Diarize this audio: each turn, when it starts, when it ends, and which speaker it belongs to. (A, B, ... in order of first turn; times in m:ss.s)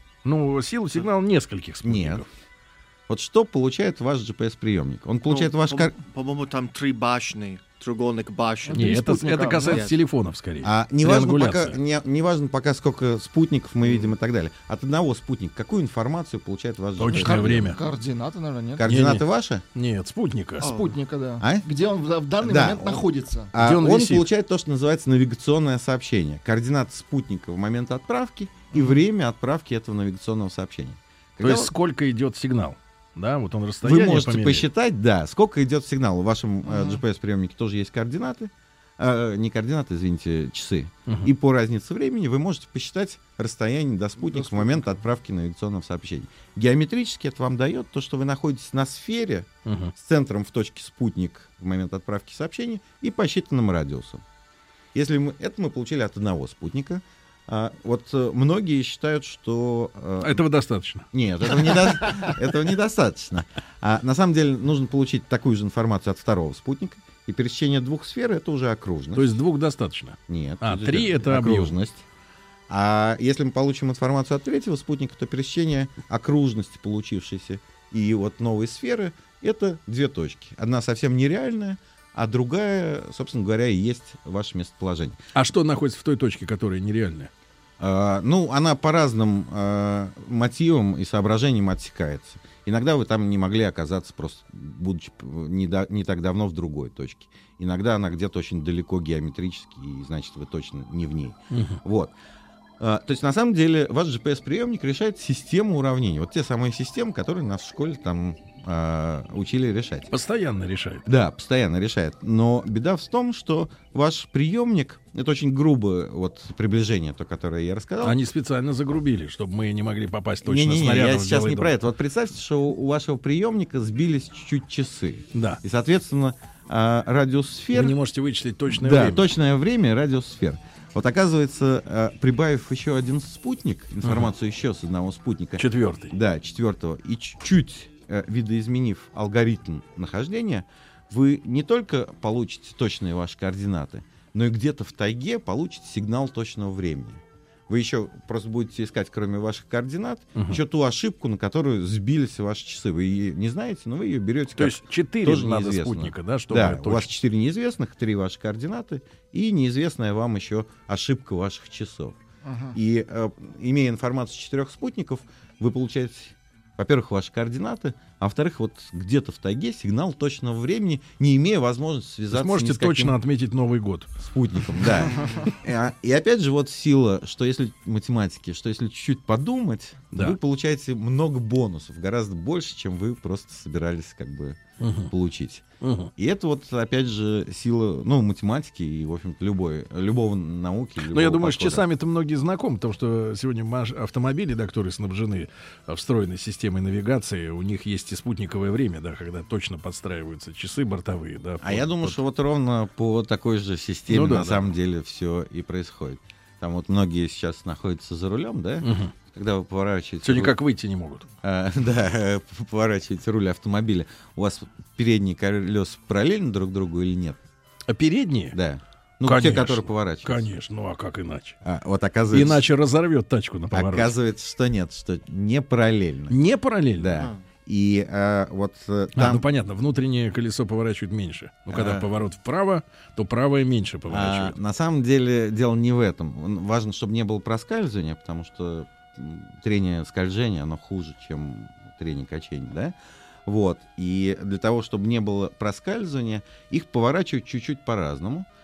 0:00.2-0:02.3 A
0:01.8-0:02.2 B
0:03.1-0:06.0 B
0:05.3-0:09.0 C
0:08.7-0:09.8 D
0:08.7-0:11.8 A
0:09.6-0:10.0 C
0:10.6-0:17.8 B
0:17.0-0:17.8 A
0:17.3-0:18.8 D
0:18.8-0:19.6 B
0:18.8-0:20.7 A
0:20.6-0:21.0 C
0:20.6-0:23.5 D
0:21.4-0:21.7 B
0:22.4-0:31.7 B
0:23.6-0:24.3 A
0:28.7-0:29.0 D
0:31.4-0:34.7 A
0:33.8-0:54.2 B
0:36.7-0:37.0 D
0:44.4-0:44.7 D
0:49.6-0:49.9 A
0:54.9-1:00.4 B
1:00.2-1:01.1 A
1:01.1-1:09.4 B
1:09.2-1:11.8 A
1:10.3-1:12.0 B
1:12.7-1:25.2 B
1:25.4-1:27.3 A
1:27.8-1:42.1 B
1:41.5-1:41.8 A
1:42.8-1:50.1 B
1:50.1-1:51.1 A
1:51.1-1:58.2 B
1:58.0-2:01.8 A
2:00.4-2:08.0 B
2:05.3-2:05.6 A
2:07.7-2:09.3 A
2:08.7-2:42.2 B
2:14.0-2:14.3 A
2:15.6-2:16.2 A
2:30.4-2:30.6 A
2:34.6-2:37.1 A
2:42.4-2:42.8 D
2:42.7-2:53.2 B
2:52.3-2:54.1 A
2:54.2-3:04.6 B
2:55.1-2:55.4 C
3:00.1-3:00.4 A
3:04.8-3:05.1 A
3:05.1-3:05.6 B
3:05.8-3:06.1 A
3:06.2-3:11.8 B
3:11.0-3:22.2 A
3:21.6-3:30.6 B
3:24.1-3:24.7 A
3:28.8-3:29.1 A
3:30.2-3:31.3 A
3:31.4-3:37.4 B
3:37.9-3:38.6 A
3:38.5-3:40.5 B
3:39.2-3:41.6 A
3:41.6-3:42.6 B
3:42.3-3:44.1 A
3:43.7-3:46.4 B
3:46.3-3:47.2 A
3:47.0-3:49.5 B
3:49.2-3:54.6 A
3:51.7-3:52.1 B
3:54.1-4:08.5 B